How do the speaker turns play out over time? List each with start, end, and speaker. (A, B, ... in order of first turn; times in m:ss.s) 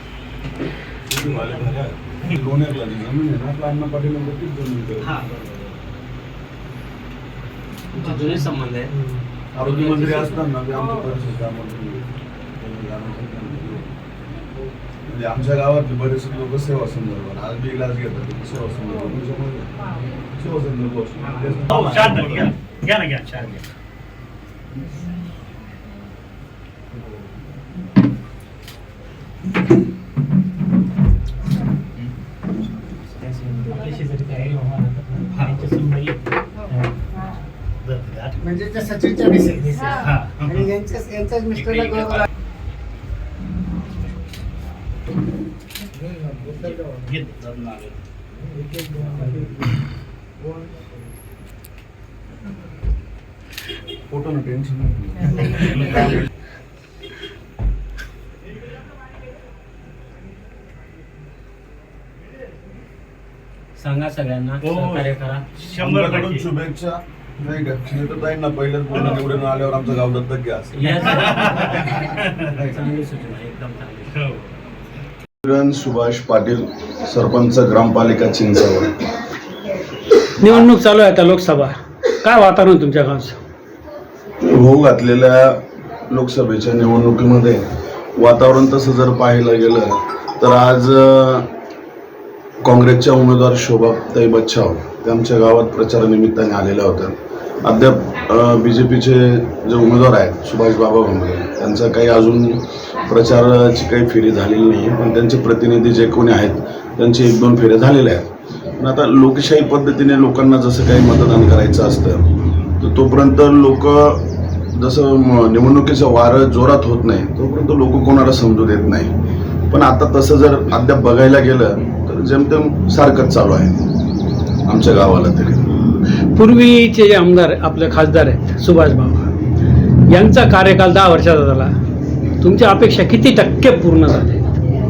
0:01.1-0:05.2 A
0:05.2-0:05.6 B
0:07.9-0:08.9 B
0:09.5-0:12.0 A
0:09.6-0:10.4 B
0:12.6-0:13.9 A
0:15.0-0:19.7 A
0:20.4-0:22.5 A
0:21.7-0:23.6 C
0:33.2-0:34.5 B
0:34.0-0:34.4 D
0:35.3-0:35.6 C
0:35.4-0:36.1 B
0:37.8-0:38.6 C
0:38.5-0:39.9 E
0:39.9-0:40.9 C
0:40.5-0:41.8 E
0:41.6-0:42.2 C
0:46.5-0:48.0 C
0:54.1-0:56.1 A
1:03.8-1:05.4 B
1:04.6-1:06.4 C
1:05.8-1:10.8 A
1:10.7-1:14.1 B
1:11.2-1:12.0 C
1:15.4-1:19.0 A
1:20.4-1:23.4 D
1:24.4-1:27.6 A
1:28.2-1:31.5 A
1:32.6-1:59.1 A
1:59.7-2:03.8 A
2:04.6-2:05.7 A
2:06.3-2:09.3 D
2:10.1-2:11.7 D
2:12.4-2:14.4 D